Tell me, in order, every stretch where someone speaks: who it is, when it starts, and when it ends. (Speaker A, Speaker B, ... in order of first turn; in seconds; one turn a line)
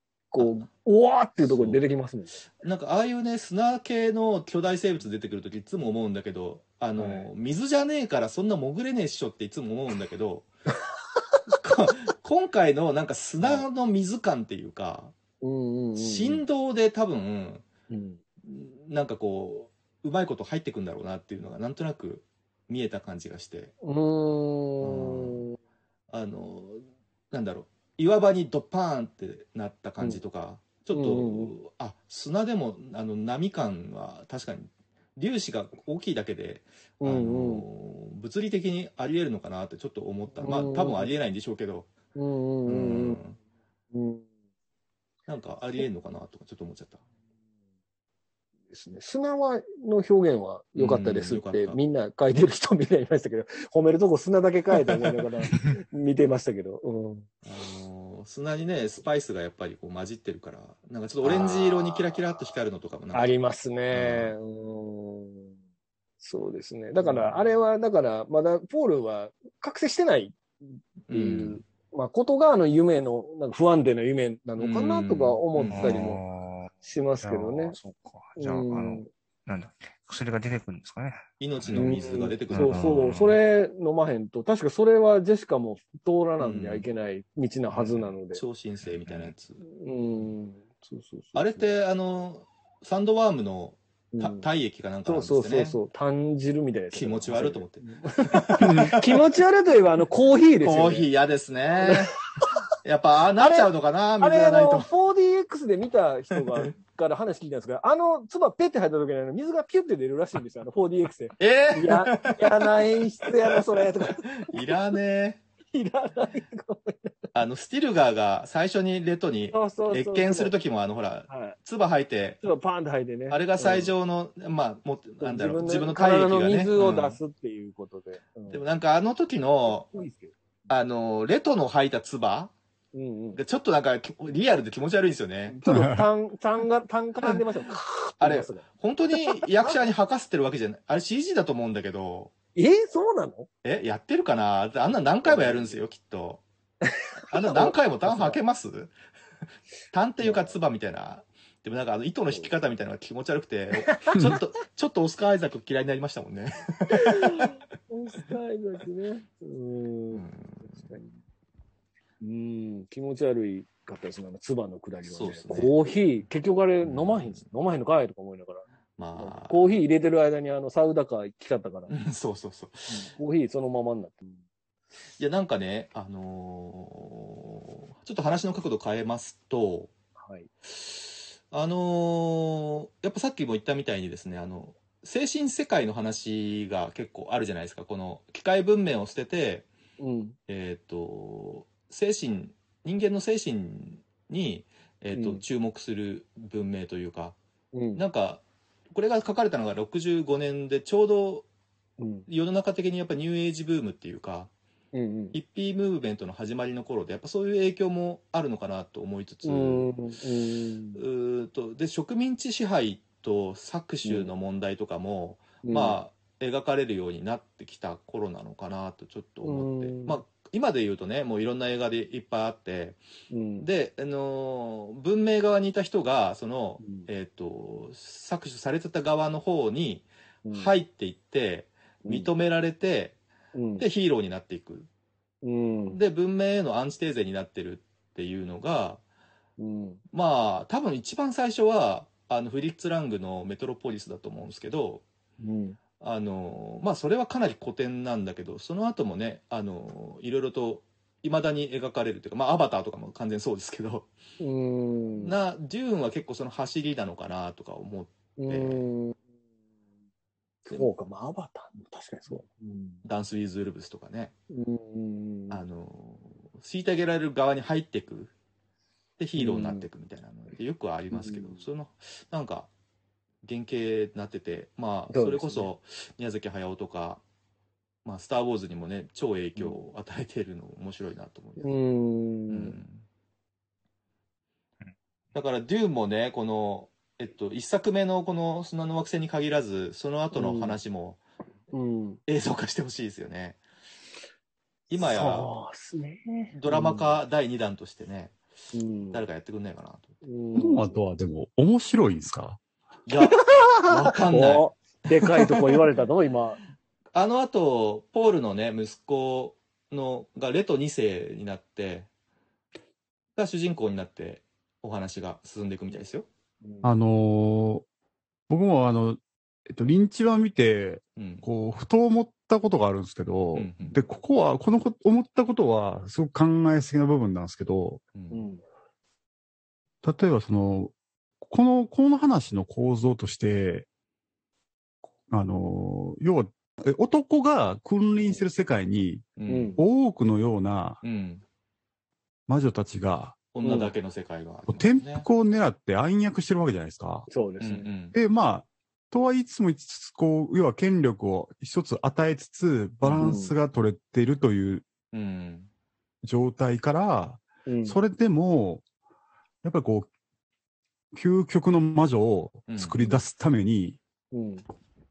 Speaker A: 0.3-2.4
Speaker B: 0.4-0.6
Speaker B: 1.4-1.8
Speaker B: 2.6-10.5
Speaker A: 7.0-7.3
Speaker B: 11.5-15.1
Speaker A: 15.4-16.4
Speaker B: 16.0-17.6
Speaker A: 17.9-18.2
Speaker B: 18.4-23.7
Speaker A: 23.8-25.6
Speaker B: 24.8-25.4
Speaker B: 26.1-41.9
Speaker A: 30.9-31.5
Speaker A: 37.0-37.6
Speaker A: 40.4-41.1
Speaker A: 42.1-43.2
Speaker B: 42.7-43.4
Speaker A: 43.9-44.3
Speaker B: 45.3-47.0
Speaker A: 48.7-57.3
Speaker B: 50.8-51.8
Speaker B: 57.4-63.4
Speaker A: 61.2-62.2
Speaker A: 63.1-65.5
Speaker B: 63.9-64.4
Speaker A: 66.2-70.4
Speaker B: 67.0-67.4
Speaker B: 71.1-71.6
Speaker A: 71.1-76.2
Speaker B: 74.6-76.2
Speaker C: 75.7-82.0
Speaker A: 76.8-77.8
Speaker A: 78.4-79.1
Speaker B: 81.4-83.1
Speaker A: 81.8-88.4
Speaker C: 82.5-83.4
Speaker B: 86.4-86.9
Speaker B: 87.7-89.6
Speaker C: 89.1-89.3
Speaker A: 89.6-91.7
Speaker B: 91.3-95.8
Speaker A: 94.1-94.5
Speaker A: 95.0-101.1
Speaker B: 96.9-99.2
Speaker B: 100.6-102.2
Speaker A: 101.8-102.5
Speaker B: 102.8-104.9
Speaker A: 103.4-114.7
Speaker B: 111.4-115.4
Speaker A: 115.7-117.3
Speaker B: 117.3-122.4
Speaker A: 119.5-120.5
Speaker A: 121.3-121.6
Speaker A: 122.4-123.9
Speaker B: 123.3-127.2
Speaker A: 125.2-128.6
Speaker B: 128.5-129.9
Speaker A: 129.7-130.3
Speaker B: 130.7-132.5
Speaker A: 132.9-133.4
Speaker B: 133.3-135.6
Speaker A: 135.5-139.8
Speaker D: 135.7-136.1
Speaker B: 138.2-142.3
Speaker A: 142.6-143.5
Speaker B: 143.6-146.4
Speaker A: 145.2-145.8
Speaker A: 146.8-148.4
Speaker B: 147.3-148.9
Speaker B: 149.9-157.5
Speaker A: 150.2-150.5
Speaker A: 153.9-154.2
Speaker A: 156.9-161.2
Speaker B: 160.1-160.9
Speaker A: 162.2-168.6
Speaker B: 165.1-165.7
Speaker B: 166.8-167.4
Speaker B: 169.0-169.8
Speaker A: 169.2-171.9
Speaker B: 171.9-173.1
Speaker A: 172.9-174.4
Speaker B: 175.2-179.9
Speaker A: 180.2-180.5
Speaker B: 180.7-189.7
Speaker A: 190.0-190.4
Speaker B: 190.5-197.4
Speaker A: 195.1-195.4
Speaker A: 197.7-198.0
Speaker B: 197.9-201.5
Speaker A: 202.0-202.3
Speaker B: 202.3-204.5
Speaker A: 204.9-205.4
Speaker B: 205.3-209.9
Speaker A: 209.4-211.0
Speaker B: 211.0-223.0
Speaker A: 214.0-214.3
Speaker A: 215.6-216.0
Speaker A: 219.4-220.2
Speaker A: 223.3-223.7
Speaker B: 223.6-233.2
Speaker A: 226.8-227.1
Speaker A: 230.4-230.7
Speaker A: 232.1-232.3
Speaker A: 233.6-233.8
Speaker B: 233.8-234.9
Speaker A: 235.4-236.0
Speaker B: 235.9-239.0
Speaker A: 239.6-240.0
Speaker B: 240.1-245.0
Speaker A: 245.4-245.8
Speaker B: 246.0-254.1
Speaker A: 254.4-255.4
Speaker B: 255.2-258.9
Speaker A: 258.4-259.2
Speaker A: 260.6-263.0
Speaker B: 263.0-264.3
Speaker A: 264.5-265.6
Speaker B: 265.5-268.3
Speaker B: 269.2-272.7
Speaker A: 269.4-269.9
Speaker A: 271.1-271.6
Speaker B: 273.4-277.2
Speaker A: 275.1-275.7
Speaker B: 278.1-281.7
Speaker A: 281.6-282.8
Speaker B: 282.5-283.1
Speaker B: 285.3-291.2
Speaker A: 290.3-290.8
Speaker A: 291.7-292.2
Speaker B: 292.3-293.6
Speaker B: 294.9-295.5
Speaker A: 294.9-297.2
Speaker B: 296.5-298.4
Speaker A: 298.7-299.2
Speaker B: 299.1-300.1
Speaker A: 300.2-301.0
Speaker D: 300.6-302.6
Speaker B: 303.1-304.7
Speaker A: 303.2-306.6
Speaker B: 307.1-312.1
Speaker B: 313.4-316.3
Speaker A: 316.6-316.9
Speaker D: 316.8-317.9
Speaker D: 318.5-328.0
Speaker B: 321.2-321.4
Speaker B: 323.5-324.0
Speaker B: 328.1-328.4
Speaker A: 328.3-328.6
Speaker D: 330.0-333.9
Speaker D: 335.3-341.0
Speaker B: 339.4-339.8
Speaker A: 339.5-339.8
Speaker B: 341.0-341.4
Speaker D: 342.5-343.4
Speaker B: 343.5-345.3
Speaker A: 343.6-343.9
Speaker D: 344.7-347.3
Speaker A: 347.3-347.9
Speaker B: 347.6-348.1
Speaker D: 348.1-354.9
Speaker B: 353.0-353.3
Speaker A: 353.2-353.6
Speaker B: 355.1-355.7
Speaker D: 356.2-358.8
Speaker A: 357.7-358.0
Speaker D: 359.6-360.1
Speaker D: 361.1-364.0
Speaker B: 362.7-363.0
Speaker A: 364.3-364.6